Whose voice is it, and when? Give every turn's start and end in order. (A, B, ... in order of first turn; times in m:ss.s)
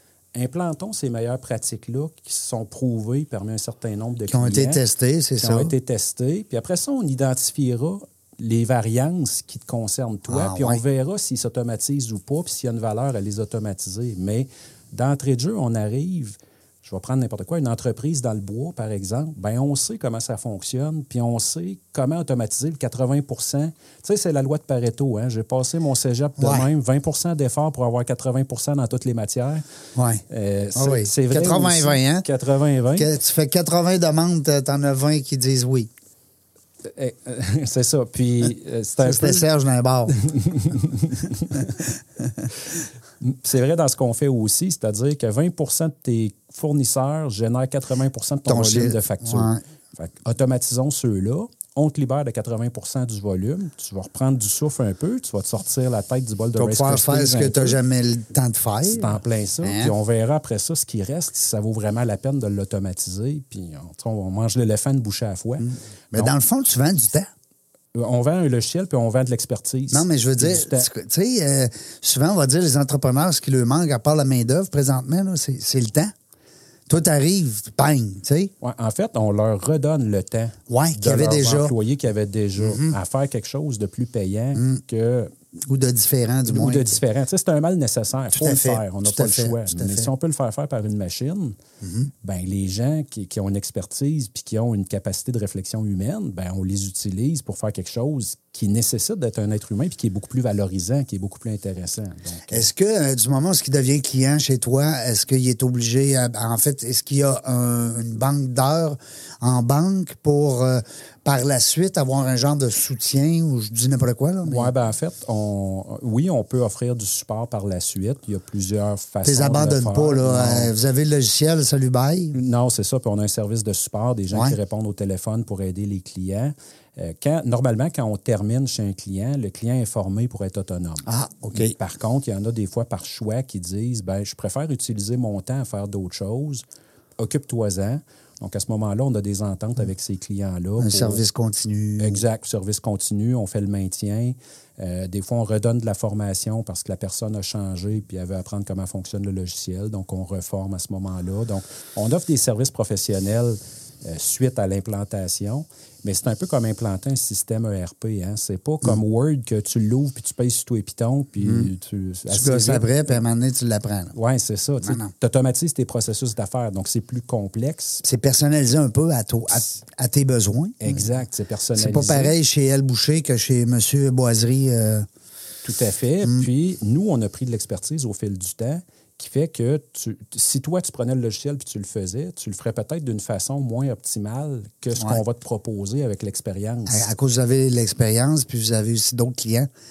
0:00.3-0:04.8 A
0:04.3-0:05.7 B
0:05.4-0:29.6 A
0:10.3-0:10.8 B
0:26.4-0:26.7 B
0:30.0-0:30.2 B
0:30.3-0:33.1 A
0:30.7-0:32.2 B
0:33.0-0:35.9 B
0:36.9-0:39.4 A
0:39.0-0:40.2 B
0:40.1-0:41.7 A
0:43.2-0:57.8 A
0:48.5-0:49.6 B
0:56.5-0:59.9 B
0:58.9-1:06.3 A
1:05.6-1:07.3 B
1:07.9-1:10.9 A
1:09.9-1:16.1 B
1:16.9-1:18.5 B
1:18.6-1:25.3 A
1:20.7-1:21.7 B
1:22.6-1:23.0 B
1:24.5-1:24.8 B
1:25.6-1:27.0 B
1:26.4-1:31.6 A
1:28.3-1:30.1 B
1:31.8-1:32.1 B
1:32.2-1:42.7 A
1:42.5-1:54.7 B
1:54.4-2:00.7 A
1:59.2-2:02.4 B
2:02.3-2:16.6 A
2:04.3-2:04.6 B
2:11.0-2:11.7 B
2:17.2-2:21.2 A
2:20.8-2:22.2 B
2:22.0-2:42.9 A
2:41.4-2:41.7 B
2:42.3-2:44.1 B
2:44.1-2:48.0 A
2:44.8-2:45.1 B
2:48.0-2:51.1 B
2:50.8-2:52.3 A
2:51.8-2:55.0 B
2:55.6-3:07.1 A
2:56.2-2:56.5 B
3:04.9-3:05.2 B
3:06.9-3:09.7 B